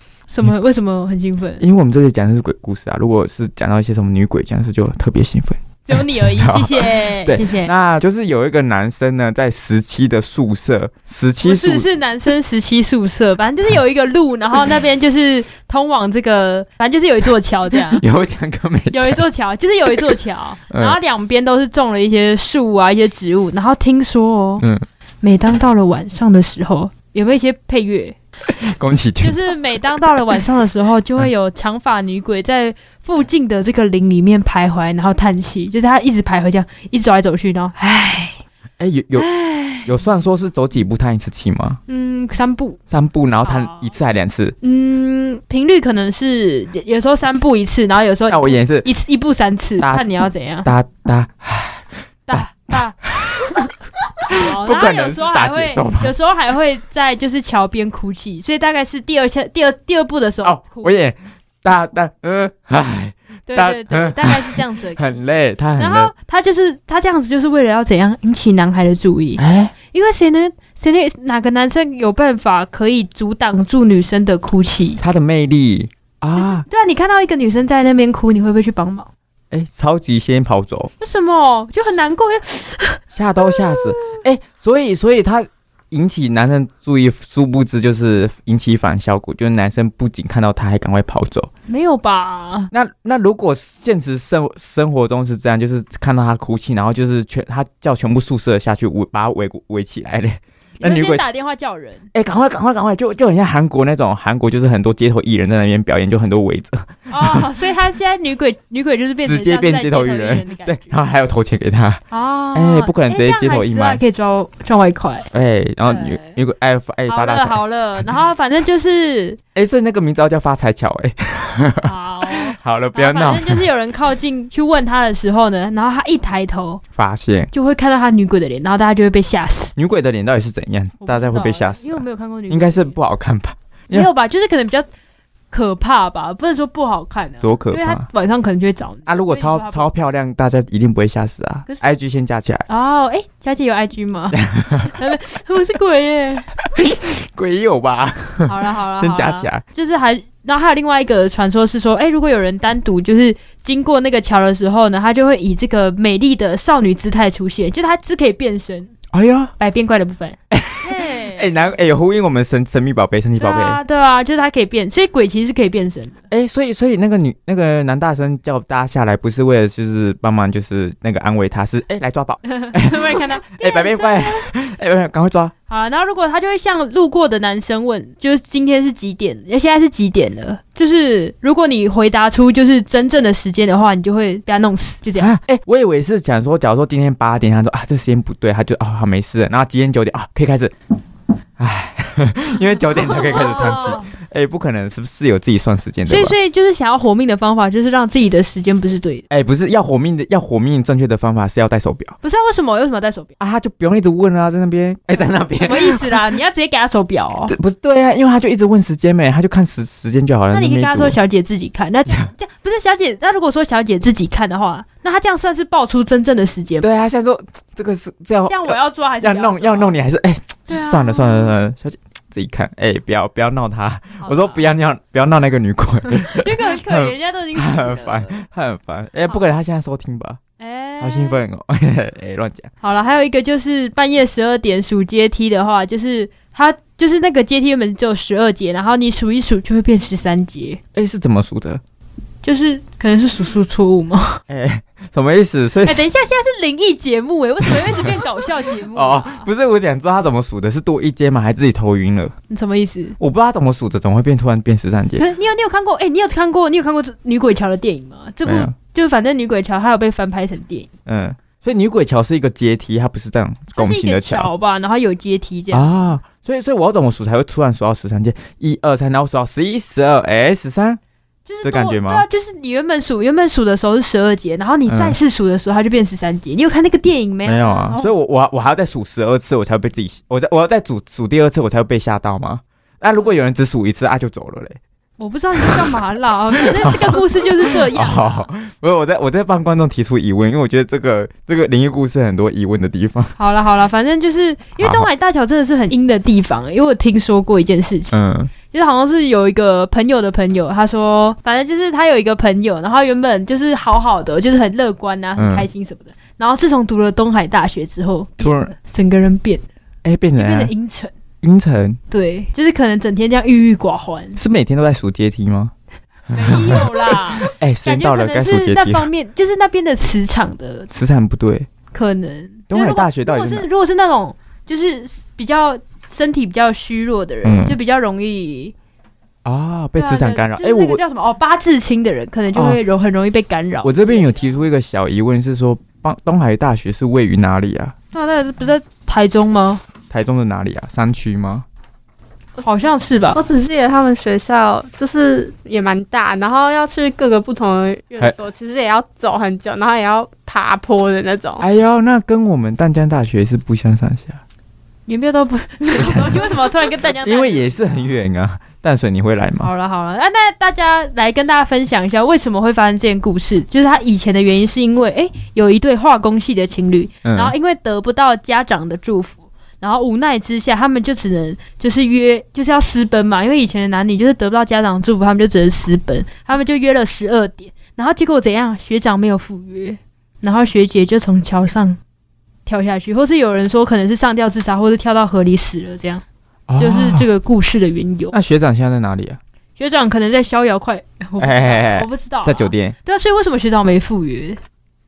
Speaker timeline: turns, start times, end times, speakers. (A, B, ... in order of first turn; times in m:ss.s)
0:00.3-0:01.6 A
0:01.6-0:11.9 B
0:05.9-0:07.7 A
0:11.4-0:18.0 A
0:17.9-0:19.2 B
0:18.9-0:24.7 A
0:20.7-0:21.0 B
0:24.6-0:24.9 B
0:25.2-0:28.2 A
0:28.6-0:29.4 B
0:29.2-0:38.4 A
0:38.8-0:41.8 B
0:39.2-0:39.9 A
0:41.9-0:42.8 A
0:42.9-0:44.6 B
0:43.4-0:43.9 A
0:44.6-0:50.7 A
0:48.3-0:48.9 B
0:49.8-0:50.1 B
0:50.6-0:56.2 B
0:52.3-0:53.0 A
0:54.3-1:01.0 A
1:00.4-1:06.1 B
1:03.5-1:05.1 A
1:05.8-1:15.0 A
1:09.4-1:09.7 B
1:15.0-1:16.7 B
1:16.4-1:19.1 A
1:19.5-1:20.9 B
1:21.0-1:24.0 A
1:23.1-1:31.5 B
1:31.7-1:32.7 A
1:32.7-1:41.2 B
1:40.8-1:42.1 A
1:42.1-1:47.5 B
1:47.1-1:51.0 A
1:49.2-1:52.0 B
1:52.1-1:55.3 A
1:52.5-1:54.0 B
1:55.3-1:57.6 B
1:55.8-1:56.4 A
1:57.1-1:59.4 A
1:59.6-2:03.6 B
2:01.8-2:06.8 A
2:07.0-2:07.5 B
2:07.5-2:09.7 A
2:09.8-2:14.1 B
2:11.0-2:13.0 A
2:13.9-2:14.9 A
2:15.5-2:19.9 A
2:17.4-2:18.1 B
2:19.1-2:22.7 B
2:22.7-2:26.5 A
2:24.3-2:25.0 B
2:26.6-2:29.6 B
2:28.4-2:38.9 A
2:39.1-2:39.5 B
2:39.6-2:41.5 A
2:40.5-2:43.8 B
2:43.4-2:46.2 A
2:46.3-2:55.5 B
2:52.5-2:54.5 A
2:55.7-3:05.3 A
3:05.2-3:10.7 B
3:11.6-3:16.4 B
3:13.1-3:14.1 A
3:16.1-3:19.2 A
3:19.3-3:22.2 B
3:22.2-3:23.3 A
3:23.4-3:26.1 B
3:25.6-3:27.5 A
3:27.5-3:31.2 B
3:30.5-3:36.9 A
3:36.8-3:50.4 B
3:38.5-3:40.0 A
3:40.7-3:41.6 A
3:44.2-3:44.6 A
3:46.2-3:48.4 A
3:50.6-3:51.4 A
3:51.0-3:52.7 B
3:52.8-4:00.8 A
4:00.9-4:01.8 B
4:02.4-4:04.4 A
4:04.5-4:06.0 B
4:05.8-4:09.5 A
4:07.6-4:08.1 B
4:08.9-4:12.3 B
4:12.5-4:13.2 A
4:13.2-4:15.3 B
4:15.2-4:20.9 A
4:18.4-4:18.8 B
4:21.1-4:24.5 B
4:23.8-4:26.0 A
4:25.7-4:31.0 B
4:31.5-4:38.1 A
4:31.6-4:32.3 B
4:34.9-4:35.2 B
4:37.4-4:44.8 B
4:45.2-4:48.5 A
4:45.6-4:45.9 B
4:46.6-4:53.4 B
4:53.4-5:09.6 A
4:54.8-4:55.1 B
4:58.1-4:58.5 B
5:05.4-5:05.7 B
5:08.4-5:08.7 B
5:10.0-5:10.7 B
5:10.4-5:11.1 A
5:11.4-5:12.0 B
5:12.1-5:14.4 A
5:14.4-5:15.7 B
5:16.3-5:20.9 A
5:16.3-5:19.1 B
5:20.9-5:21.7 B
5:21.9-5:28.7 A
5:22.7-5:23.7 B
5:27.4-5:27.8 B
5:29.4-5:31.0 B
5:30.0-5:34.6 A
5:32.5-5:32.8 B
5:33.8-5:38.0 B
5:38.1-5:39.8 A
5:40.1-5:41.7 B
5:42.6-5:43.4 A
5:43.3-5:51.6 C
5:51.6-5:54.4 B
5:55.1-5:58.0 A
5:55.9-5:56.5 B
5:57.1-5:59.7 B
5:59.6-6:22.0 A
6:07.2-6:07.6 B
6:22.7-6:26.2 A
6:26.7-6:27.3 B
6:26.8-6:28.4 A
6:28.3-6:29.4 B
6:29.8-6:34.6 A
6:31.4-6:33.0 B